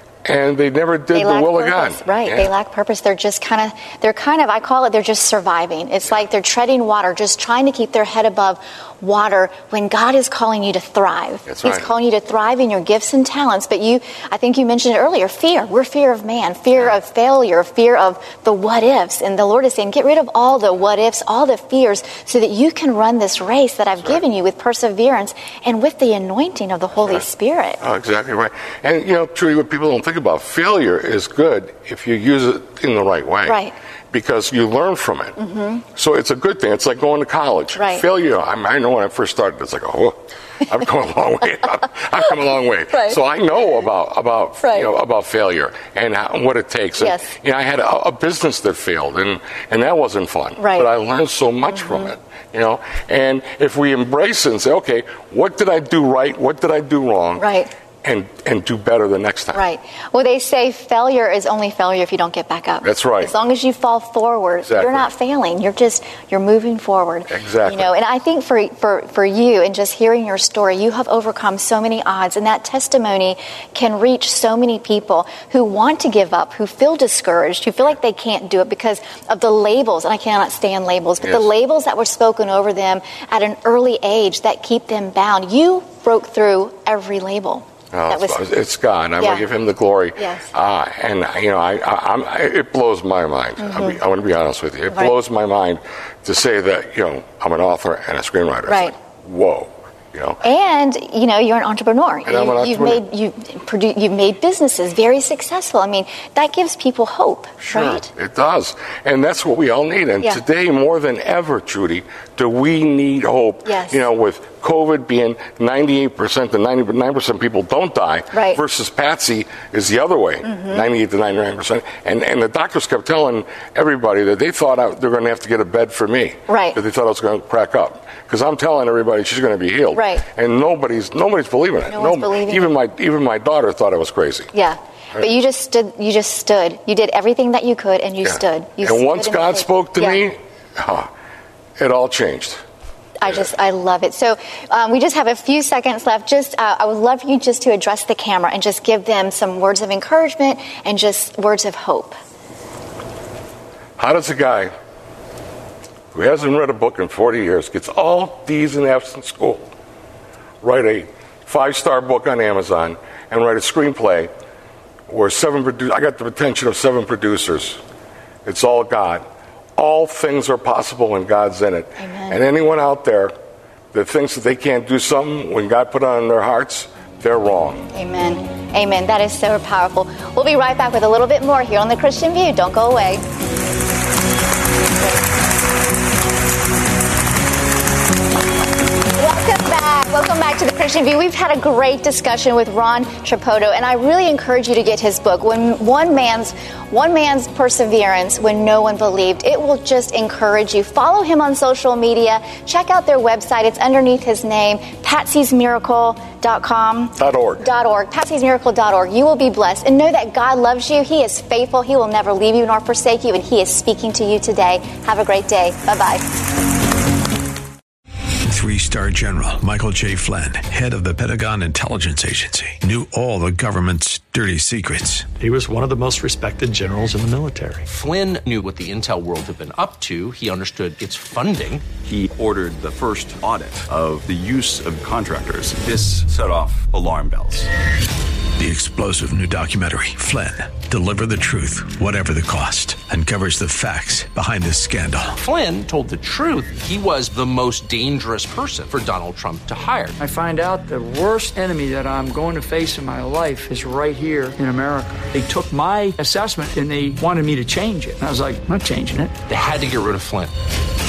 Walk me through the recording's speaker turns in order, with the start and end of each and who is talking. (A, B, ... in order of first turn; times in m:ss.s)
0:00.2-0:02.5 A
0:01.1-0:27.8 B
0:11.5-0:11.9 A
0:27.8-0:35.4 A
0:33.4-0:33.7 B
0:35.4-0:35.8 B
0:35.9-0:57.5 A
0:37.8-0:38.0 B
0:42.9-0:43.2 B
0:44.6-0:44.9 B
0:47.0-0:47.3 B
0:50.6-0:50.9 B
0:57.4-0:57.7 B
0:58.0-0:59.6 A
0:59.5-1:28.4 B
1:02.8-1:03.3 A
1:04.7-1:05.1 A
1:07.3-1:07.9 A
1:21.2-1:21.5 A
1:27.9-1:40.4 A
1:29.2-1:29.4 B
1:30.2-1:30.5 B
1:33.6-1:34.0 B
1:38.7-1:38.9 B
1:40.4-1:48.1 B
1:42.2-1:43.0 A
1:47.6-2:14.5 A
1:53.7-1:54.0 B
1:58.3-1:58.6 B
2:00.4-2:00.8 B
2:06.5-2:06.8 B
2:09.9-2:10.2 B
2:11.9-2:12.7 B
2:14.5-2:20.2 B
2:18.2-2:21.1 A
2:21.8-2:22.6 A
2:23.2-2:32.2 B
2:34.0-2:34.7 A
2:36.1-2:39.6 A
2:40.6-2:44.3 A
2:45.1-2:47.8 A
2:48.4-2:53.3 A
2:52.0-2:52.4 B
2:53.9-2:57.9 A
2:57.9-3:03.2 B
3:09.1-3:36.3 B
3:27.2-3:27.6 A
3:38.4-3:45.3 C
3:45.4-3:47.9 D
3:47.9-3:51.9 E
3:52.0-3:57.7 F
3:58.6-4:05.4 C
4:05.4-4:10.2 E
4:10.2-4:19.4 G
4:19.5-4:20.5 E